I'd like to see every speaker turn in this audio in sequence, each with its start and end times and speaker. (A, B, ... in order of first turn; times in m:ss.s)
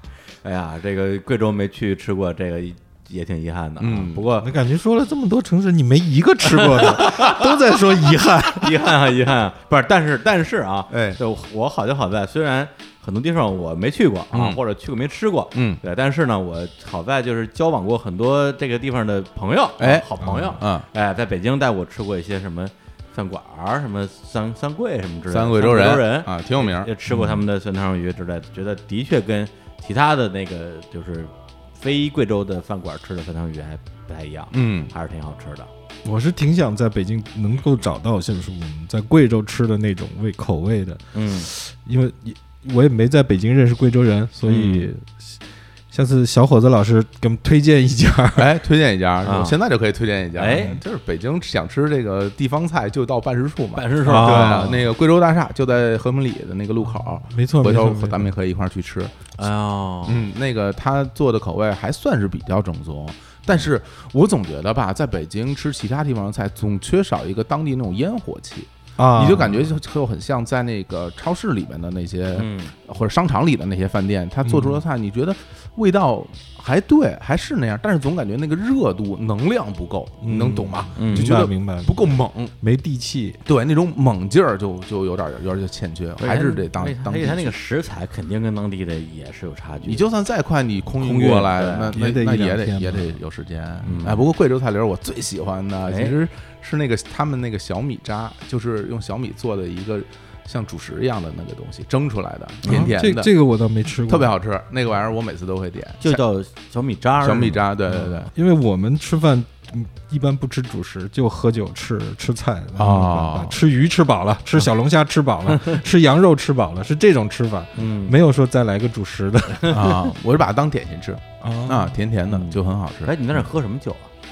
0:00.4-0:04.5 A
0:03.8-0:04.2 B
0:04.4-0:08.8 C
0:06.5-0:07.4 A
0:08.6-0:35.7 A
0:10.9-0:11.2 B
0:14.3-0:14.6 B
0:15.5-0:15.8 B
0:19.8-0:20.9 B
0:20.2-0:20.5 C
0:25.3-0:27.2 B
0:34.5-0:34.9 B
0:36.0-0:45.4 C
0:41.1-0:41.5 A
0:44.5-0:44.9 A
0:45.9-0:48.5 C
0:48.4-0:59.2 B
0:49.2-0:49.6 A
0:50.4-0:50.8 A
0:53.8-0:54.8 A
0:54.0-0:54.8 C
0:57.2-0:58.3 C
0:59.4-1:00.2 A
1:00.0-1:22.5 B
1:09.0-1:09.6 C
1:12.4-1:12.7 A
1:14.4-1:14.8 C
1:20.2-1:23.4 C
1:21.0-1:21.3 A
1:23.5-1:27.6 B
1:26.2-1:30.0 A
1:29.8-1:43.3 B
1:31.0-1:31.9 A
1:31.9-1:33.2 C
1:33.8-1:34.3 A
1:35.9-1:36.1 A
1:42.6-1:42.9 A
1:42.7-1:44.3 C
1:44.1-1:46.2 B
1:46.0-1:47.6 A
1:47.2-1:48.3 B
1:48.0-2:00.0 C
1:52.8-1:53.6 B
1:57.8-1:58.2 A
1:59.7-2:03.1 B
2:01.4-2:02.0 C
2:02.3-2:04.1 A